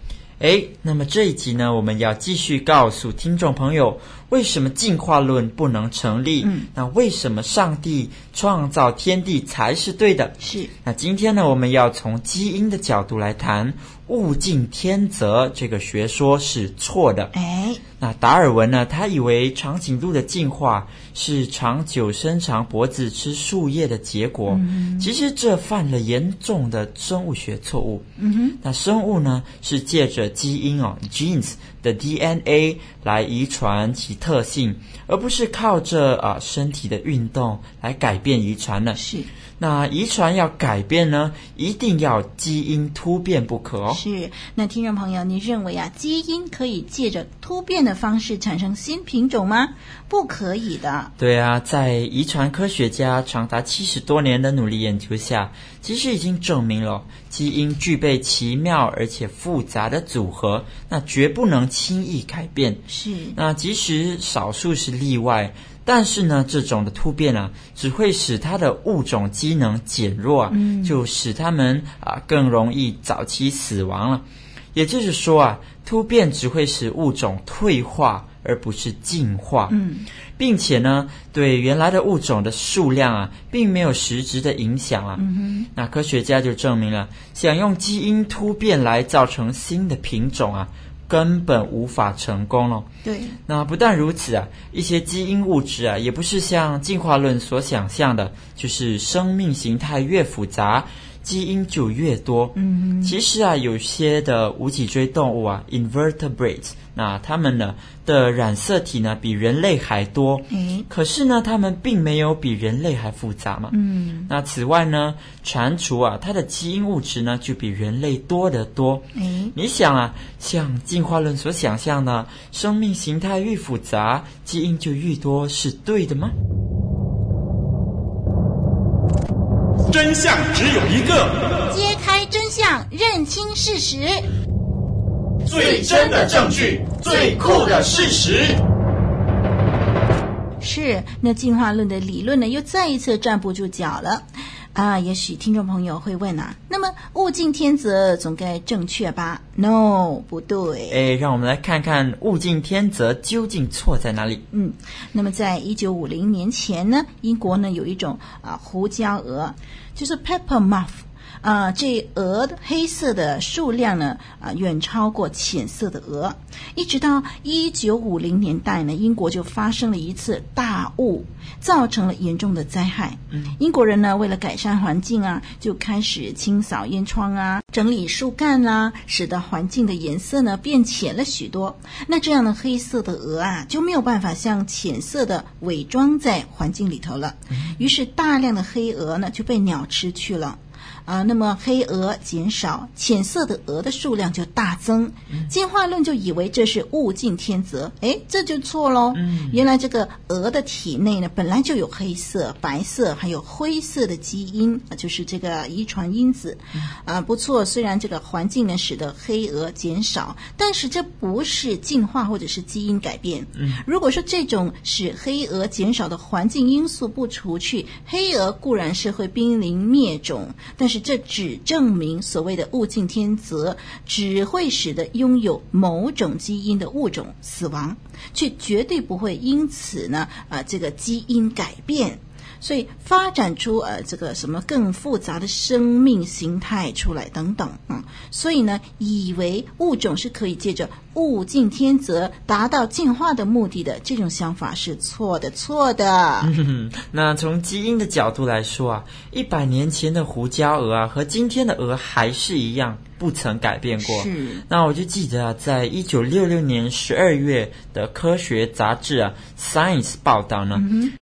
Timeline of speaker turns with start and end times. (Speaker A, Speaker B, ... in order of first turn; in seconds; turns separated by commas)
Speaker A: 0.4-17.3, Speaker B: 6.4-6.7, Speaker B: 10.4-10.7, Speaker B: 17.3-17.8, Speaker A: 18.0-28.1, Speaker B: 24.5-25.1, Speaker B: 28.2-28.6, Speaker A: 28.6-39.0, Speaker B: 39.0-39.3, Speaker A: 39.6-44.0, Speaker B: 43.9-51.1, Speaker A: 51.2-62.8, Speaker B: 62.9-63.4, Speaker A: 63.4-79.8, Speaker B: 70.5-71.0, Speaker B: 79.7-80.1, Speaker A: 80.4-85.2, Speaker B: 85.2-85.7, Speaker A: 85.8-92.9, Speaker B: 93.0-93.4, Speaker A: 93.5-113.8, Speaker B: 102.6-103.1, Speaker B: 110.5-110.9, Speaker B: 113.7-114.3, Speaker A: 114.3-126.3, Speaker B: 119.2-119.5, Speaker C: 129.9-131.5, Speaker B: 131.7-134.2, Speaker C: 135.4-138.6, Speaker B: 140.6-151.0, Speaker A: 150.9-154.4, Speaker B: 154.5-246.5, Speaker A: 187.5-187.8, Speaker A: 199.1-199.6, Speaker A: 213.6-213.8, Speaker A: 246.4-260.9, Speaker B: 254.0-254.6, Speaker B: 260.7-261.1